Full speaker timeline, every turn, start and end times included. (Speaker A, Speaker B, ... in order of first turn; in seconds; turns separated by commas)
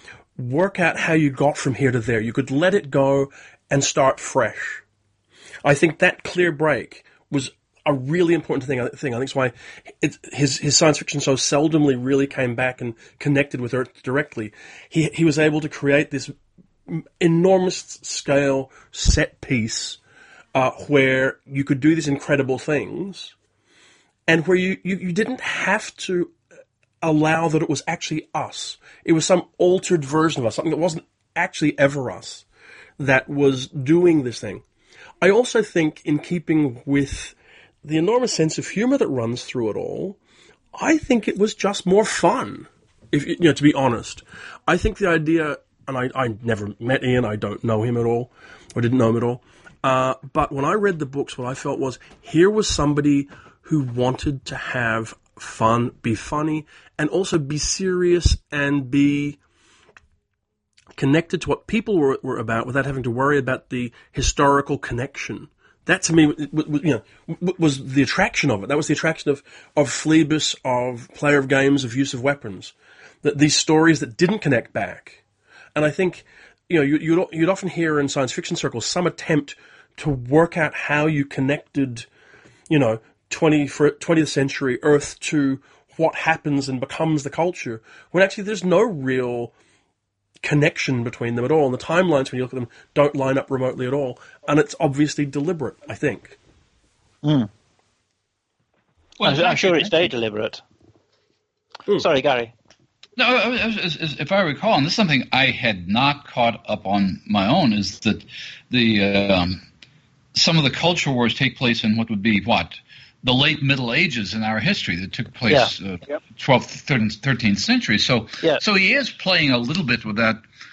Speaker A: 0.4-4.8, Speaker A: 5.6-16.3, Speaker A: 16.9-20.0, Speaker A: 20.6-23.3, Speaker A: 24.3-26.4, Speaker A: 27.0-32.5, Speaker A: 33.0-34.6, Speaker A: 35.2-40.2, Speaker A: 40.8-59.4, Speaker A: 61.0-75.2, Speaker A: 75.8-82.1, Speaker A: 82.7-89.5, Speaker A: 90.4-96.4, Speaker B: 97.2-97.5, Speaker C: 99.2-100.0, Speaker B: 99.2-100.6, Speaker B: 101.9-102.5, Speaker C: 103.2-109.6, Speaker C: 110.3-120.4, Speaker B: 115.5-115.7